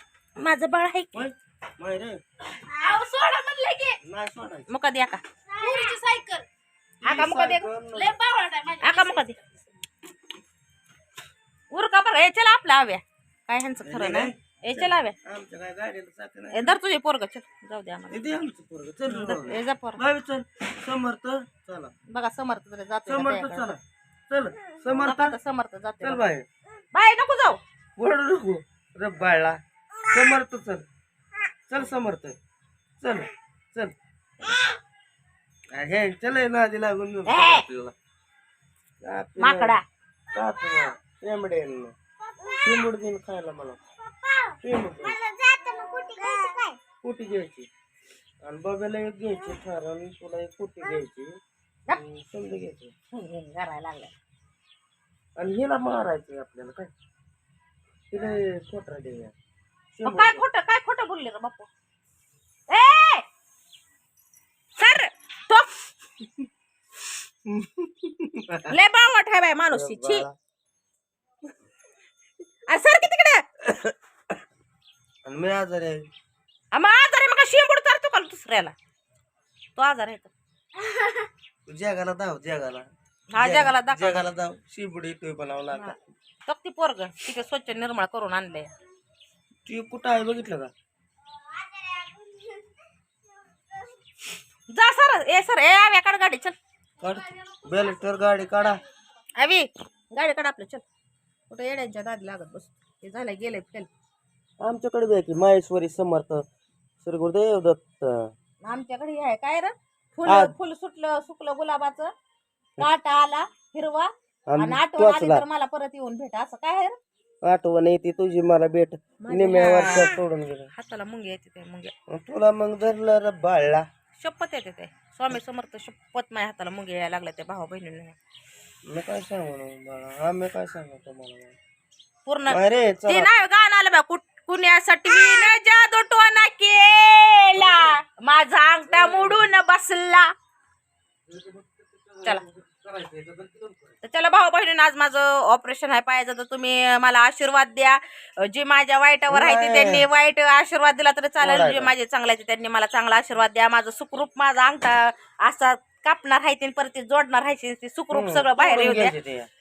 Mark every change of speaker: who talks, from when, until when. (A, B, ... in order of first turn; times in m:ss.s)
0:00.4-0:01.3 A
0:01.1-0:02.2 B
0:02.6-0:04.0 C
0:04.0-0:04.7 B
0:04.7-0:05.9 A
0:05.5-0:06.5 C
0:07.0-0:07.7 A
0:07.0-0:08.1 B
0:07.9-0:09.6 C
0:08.8-0:09.4 A
0:11.7-0:15.2 A
0:13.8-0:16.8 B
0:16.5-0:18.2 A
0:18.1-0:21.9 B
0:19.1-0:20.0 A
0:22.1-0:23.8 A
0:23.1-0:25.4 B
0:25.0-0:26.2 A
0:26.0-0:26.4 B
0:26.9-0:27.6 A
0:28.0-0:30.8 B
0:31.7-0:32.4 B
0:33.0-0:33.9 B
0:35.7-0:37.9 B
0:37.3-0:37.7 A
0:39.0-0:39.8 B
0:39.4-0:39.8 A
0:40.3-0:41.9 B
0:42.6-0:43.8 B
0:44.6-0:45.2 B
0:45.3-0:46.7 A
0:47.0-0:47.7 B
0:48.4-0:51.3 B
0:51.9-0:52.9 B
0:53.1-0:54.1 A
0:55.4-0:56.9 B
0:58.1-0:59.3 B
0:59.9-1:00.4 B
1:00.0-1:01.7 A
1:02.7-1:03.2 A
1:04.8-1:05.8 A
1:07.4-1:08.7 B
1:08.7-1:10.2 A
1:09.7-1:10.4 B
1:12.7-1:13.4 A
1:13.6-1:13.9 B
1:15.2-1:16.0 B
1:16.7-1:18.7 A
1:19.8-1:20.3 A
1:21.6-1:26.1 B
1:23.3-1:24.2 A
1:26.5-1:28.7 A
1:29.6-1:30.7 B
1:34.7-1:36.6 A
1:37.0-1:38.8 B
1:39.4-1:40.8 A
1:41.5-1:43.9 A
1:44.6-1:46.4 B
1:47.0-1:48.3 B
1:48.6-1:52.1 A
1:50.2-1:50.5 B
1:52.8-1:57.0 A
1:54.5-1:55.4 B
1:57.4-2:00.7 B
1:59.2-2:00.2 A
2:00.7-2:01.9 A
2:02.1-2:03.8 B
2:04.2-2:08.2 A
2:08.8-2:11.5 B
2:12.2-2:20.3 A
2:12.5-2:13.3 B
2:17.6-2:17.9 B
2:18.9-2:19.5 B
2:21.3-2:23.9 B
2:24.0-2:39.1 A
2:29.3-2:30.1 B
2:31.4-2:31.9 B
2:38.1-2:39.5 B